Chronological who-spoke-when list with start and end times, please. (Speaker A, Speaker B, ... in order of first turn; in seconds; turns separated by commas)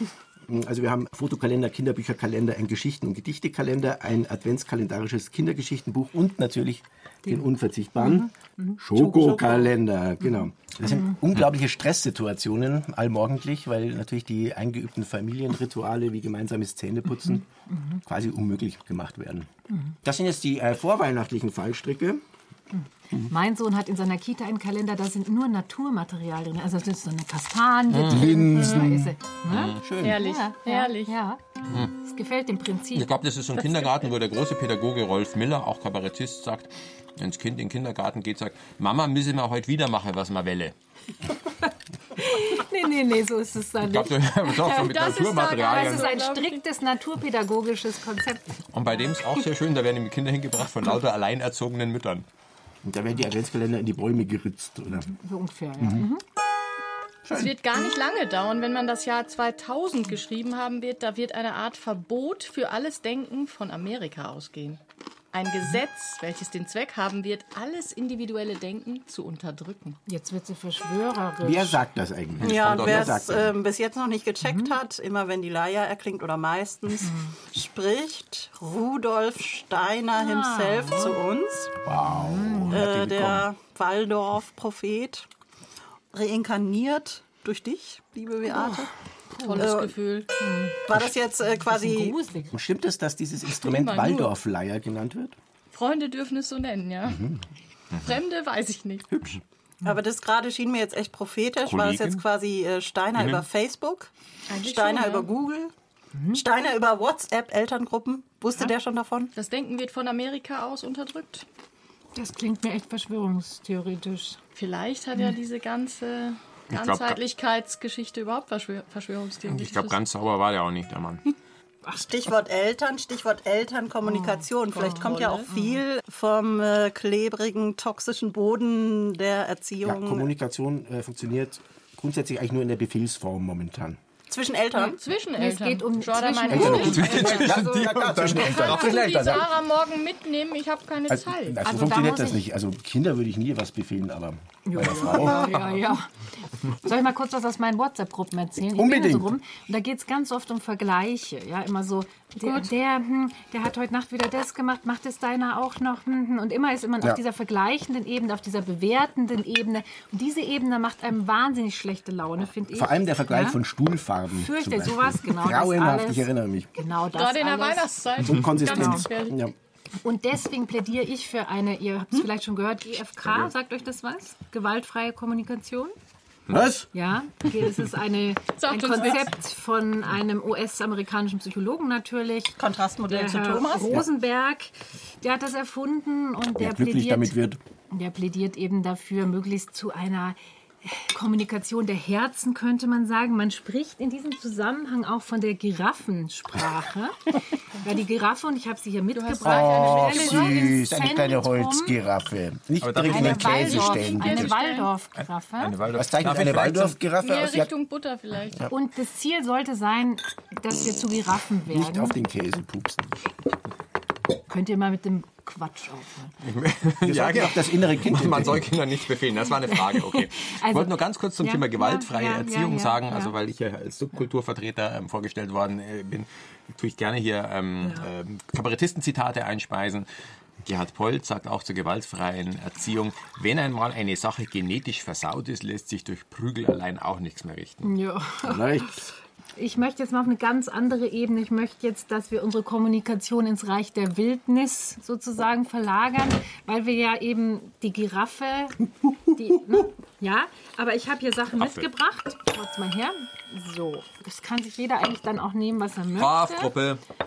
Speaker A: 0.4-17.4, Speaker B: 7.2-8.8, Speaker C: 9.0-9.5, Speaker B: 10.2-11.1, Speaker B: 17.2-18.0, Speaker A: 18.1-19.5, Speaker B: 19.7-19.9, Speaker A: 20.0-22.2, Speaker B: 22.7-31.4, Speaker C: 27.9-28.4, Speaker A: 28.1-30.2, Speaker D: 28.6-28.8, Speaker C: 29.5-29.9, Speaker D: 30.0-31.1, Speaker C: 31.7-31.9, Speaker B: 32.0-34.1, Speaker C: 32.9-40.7, Speaker B: 41.6-45.0, Speaker C: 43.9-46.1, Speaker D: 44.7-46.6, Speaker B: 45.6-48.6, Speaker C: 48.7-52.3, Speaker A: 52.8-55.1, Speaker B: 54.9-56.2, Speaker A: 55.8-56.1, Speaker A: 57.2-57.5, Speaker D: 57.3-64.8, Speaker D: 65.3-70.0, Speaker B: 70.0-71.8, Speaker A: 71.4-73.5, Speaker C: 72.4-73.5, Speaker E: 72.4-81.7, Speaker B: 74.4-74.8, Speaker B: 77.0-77.3, Speaker B: 80.2-81.2, Speaker A: 81.8-83.5, Speaker B: 82.0-82.8, Speaker E: 82.7-85.3, Speaker E: 86.1-88.9, Speaker B: 88.5-89.7, Speaker D: 89.4-90.3, Speaker E: 89.5-90.0, Speaker B: 90.4-90.8, Speaker E: 90.9-92.2, Speaker B: 91.6-92.5, Speaker A: 92.5-95.4, Speaker D: 93.5-94.3, Speaker D: 95.7-97.2, Speaker A: 97.1-97.4, Speaker C: 97.9-98.2, Speaker D: 98.0-99.0, Speaker A: 99.1-99.4, Speaker E: 99.8-105.7, Speaker C: 101.6-102.2, Speaker C: 103.2-103.4, Speaker D: 104.5-105.3, Speaker B: 106.1-106.4, Speaker E: 106.3-109.3, Speaker D: 109.3-111.5, Speaker B: 112.1-114.4, Speaker D: 114.5-120.0, Speaker C: 116.7-117.2, Speaker C: 119.5-121.2, Speaker E: 121.9-130.3, Speaker B: 124.0-125.0, Speaker D: 124.7-125.6, Speaker B: 125.5-125.8, Speaker A: 129.8-134.0, Speaker E: 134.3-135.0, Speaker D: 134.8-137.6, Speaker B: 134.8-137.5, Speaker A: 136.5-139.5, Speaker C: 136.8-139.3, Speaker D: 138.3-141.6, Speaker A: 141.1-145.4, Speaker B: 141.6-142.5, Speaker B: 144.7-146.1, Speaker D: 144.8-146.0, Speaker B: 146.7-163.6, Speaker A: 148.7-149.3, Speaker D: 152.4-152.7, Speaker A: 162.7-166.7, Speaker B: 164.3-167.9, Speaker D: 167.1-169.4, Speaker A: 168.2-169.5, Speaker B: 168.6-169.0, Speaker B: 170.0-175.9, Speaker A: 176.5-176.9, Speaker B: 176.9-182.6, Speaker D: 178.6-179.3, Speaker E: 182.6-184.0, Speaker B: 183.1-187.4, Speaker A: 186.6-187.6, Speaker B: 187.9-201.9, Speaker D: 199.1-200.7, Speaker A: 199.4-204.5, Speaker C: 202.8-203.9, Speaker B: 203.1-205.8, Speaker D: 203.6-204.9, Speaker C: 205.6-207.0, Speaker A: 205.9-207.7, Speaker D: 207.2-208.7, Speaker B: 208.7-212.2, Speaker A: 211.7-213.1, Speaker B: 214.5-216.3, Speaker C: 216.4-230.1, Speaker A: 217.0-218.7, Speaker B: 219.7-223.3, Speaker B: 227.8-228.1, Speaker C: 230.6-237.9, Speaker B: 237.8-239.0, Speaker A: 238.4-239.0, Speaker B: 239.6-256.7, Speaker C: 251.6-251.9, Speaker C: 256.1-257.0